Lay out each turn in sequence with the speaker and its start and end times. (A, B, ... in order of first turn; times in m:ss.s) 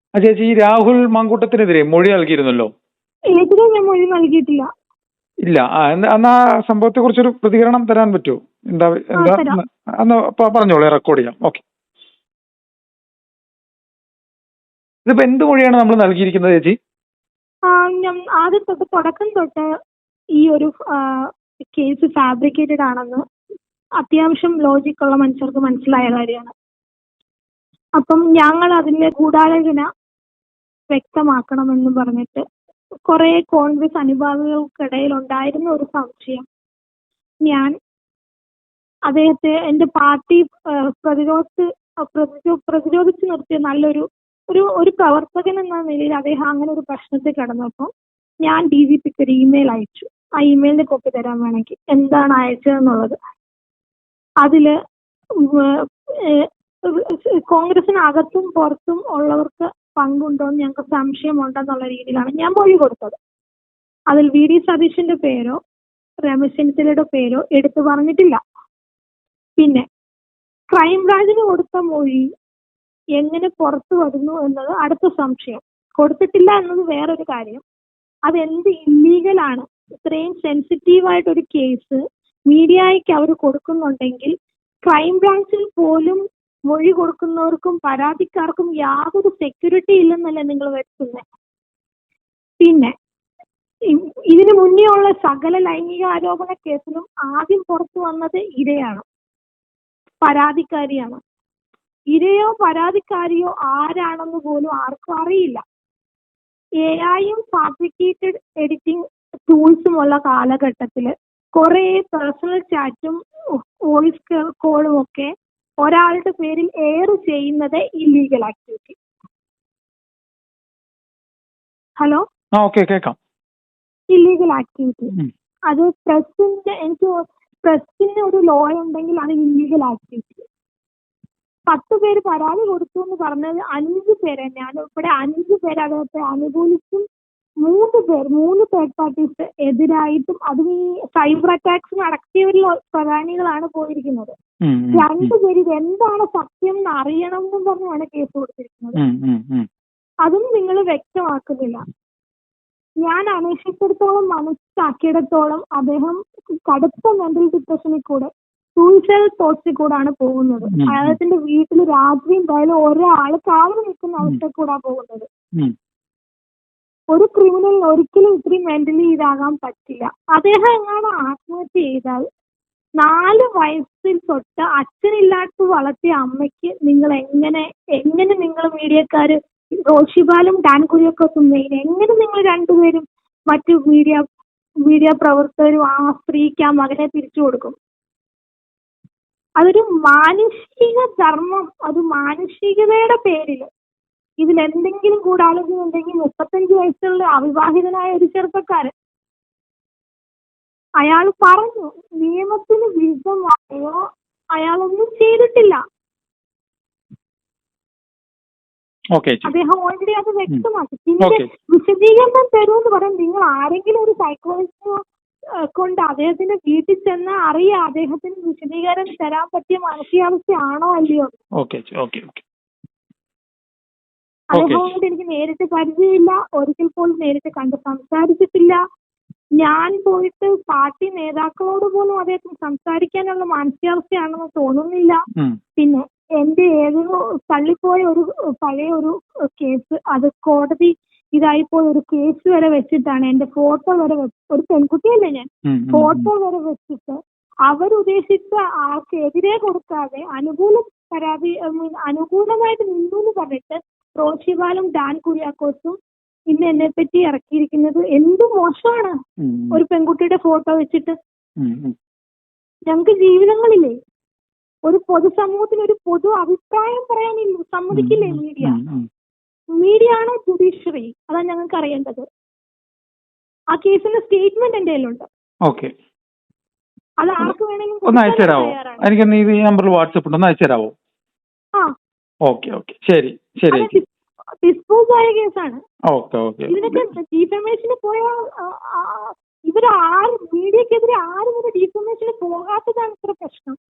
0:00.2-0:02.7 A
0:03.3-0:04.6 B
0:05.4-0:11.6 A
0:09.2-0:09.6 B
0:15.0-0:16.7 A
0:17.7-0:19.7 B
0:20.4-0:23.2 B
0:24.0-0:26.5 B
0:28.0-0:29.9 B
0:30.9-0:32.4 B
0:33.1-0:36.4 B
0:37.4-0:37.7 B
0:39.1-0:47.9 B
0:48.4-0:53.1 B
0:54.4-0:54.7 B
0:55.4-1:03.2 B
1:04.1-1:05.6 B
1:06.2-1:08.4 B
1:09.6-1:09.8 B
1:10.7-1:12.3 B
1:13.2-1:17.6 B
1:18.3-1:22.0 B
1:22.5-1:24.3 B
1:24.8-1:31.2 B
1:32.6-1:32.9 B
1:33.9-1:39.0 B
1:40.2-1:41.2 B
1:42.1-1:45.6 B
1:46.8-1:55.3 B
1:55.8-1:59.0 B
2:02.6-2:03.2 A
2:04.1-2:05.1 B
2:05.7-2:10.4 B
2:11.7-2:17.0 B
2:17.6-2:24.3 B
2:24.6-2:25.3 A
2:24.9-2:29.0 B
2:29.0-2:29.7 A
2:30.2-2:31.8 B
2:33.0-2:45.3 B
2:40.7-2:41.2 A
2:47.1-2:52.2 B
2:53.0-2:59.4 B
2:59.9-3:04.2 B
3:04.9-3:07.8 B
3:09.6-3:13.7 B
3:14.4-3:18.9 B
3:21.0-3:24.0 B
3:24.6-3:25.8 B
3:29.1-3:29.5 A
3:29.4-3:35.0 B
3:35.7-3:41.4 B
3:41.6-3:42.4 A
3:44.5-3:44.9 A
3:44.5-3:48.8 B
3:49.6-3:55.2 B
3:55.8-4:07.2 B
4:05.7-4:06.3 A
4:07.7-4:16.0 B
4:16.5-4:19.1 B
4:19.4-4:19.8 A
4:19.7-4:21.1 B
4:21.6-4:21.9 A
4:22.9-4:23.9 B
4:24.8-4:28.8 B
4:27.9-4:29.0 A
4:29.8-4:32.2 B
4:33.7-4:35.2 B
4:35.7-4:35.9 A
4:37.2-4:39.1 B
4:38.1-4:40.9 A
4:42.5-4:44.0 A
4:43.7-4:44.1 B
4:44.6-4:45.8 B
4:46.1-4:47.0 A
4:46.7-4:53.8 B